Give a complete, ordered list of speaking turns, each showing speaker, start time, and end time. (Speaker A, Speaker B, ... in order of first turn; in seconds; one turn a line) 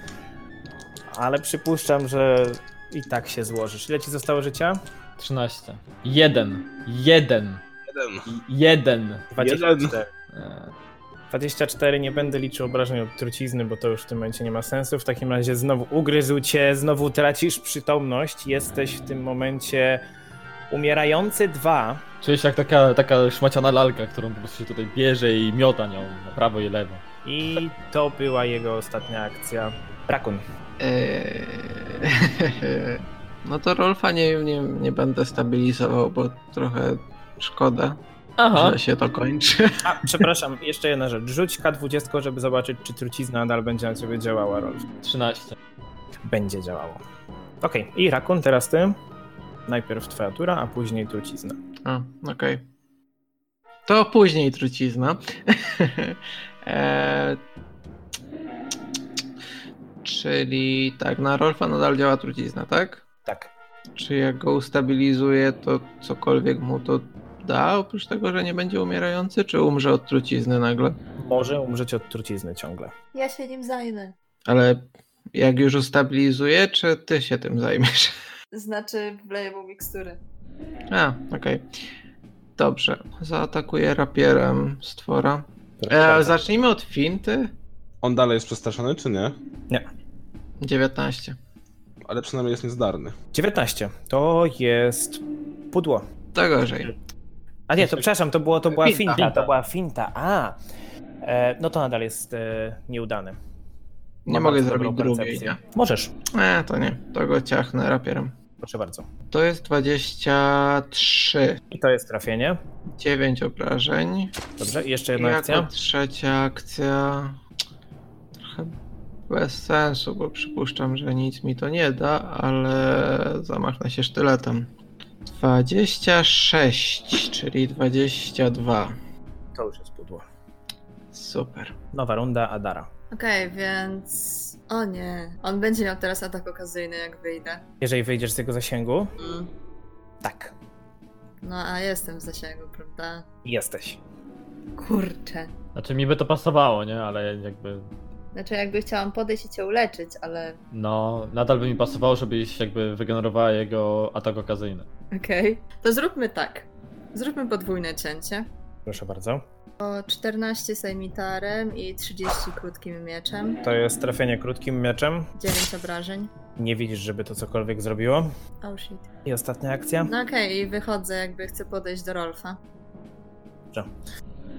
Speaker A: 1.1-4.8
Speaker B: 5.2-7.6
Speaker C: 7.9-8.3
Speaker B: 8.3-9.2
Speaker A: 9.3-10.1
Speaker C: 9.4-10.0
Speaker B: 10.3-10.7
Speaker A: 11.3-20.0
Speaker A: 20.7-22.0
Speaker B: 22.2-27.0
Speaker A: 27.2-30.4
Speaker D: 30.8-38.0
Speaker B: 38.4-38.8
Speaker D: 38.5-40.0
Speaker A: 39.8-44.9
Speaker B: 45.0-45.6
Speaker A: 46.2-47.0
Speaker A: 47.6-49.0
Speaker A: 49.7-51.6
Speaker D: 51.8-52.6
Speaker D: 53.9-57.4
Speaker D: 60.0-63.1
Speaker D: 64.0-71.0
Speaker A: 71.2-72.9
Speaker E: 73.1-74.1
Speaker D: 74.5-78.1
Speaker E: 78.5-80.2
Speaker D: 80.9-81.7
Speaker D: 82.6-87.5
Speaker A: 85.8-86.5
Speaker C: 88.0-89.3
Speaker D: 90.6-91.3
Speaker C: 92.1-93.2
Speaker A: 93.3-96.0
Speaker D: 96.3-96.9
Speaker A: 97.7-100.6
Speaker D: 98.7-99.5
Speaker A: 101.2-103.4
Speaker D: 104.2-105.6
Speaker A: 104.3-106.1
Speaker D: 106.3-108.3
Speaker A: 108.6-109.1
Speaker D: 109.3-111.6
Speaker A: 111.7-112.6
Speaker D: 112.9-114.3
Speaker A: 114.6-115.7
Speaker D: 115.2-117.4
Speaker D: 118.4-118.7
Speaker D: 119.3-124.7
Speaker D: 125.3-128.9
Speaker A: 129.5-130.2
Speaker D: 131.1-131.7
Speaker A: 131.9-132.9
Speaker E: 133.1-137.6
Speaker A: 137.8-139.1
Speaker E: 139.2-139.5
Speaker A: 140.2-140.5
Speaker E: 141.4-143.2
Speaker A: 143.4-144.0
Speaker E: 144.8-145.5
Speaker B: 145.7-147.9
Speaker E: 148.3-150.6
Speaker B: 150.7-154.8
Speaker E: 155.1-158.5
Speaker A: 158.8-159.4
Speaker E: 159.8-163.6
Speaker A: 163.6-165.3
Speaker E: 165.4-166.3
Speaker A: 166.6-168.3
Speaker E: 168.6-169.1
Speaker A: 169.2-170.1
Speaker E: 170.0-172.6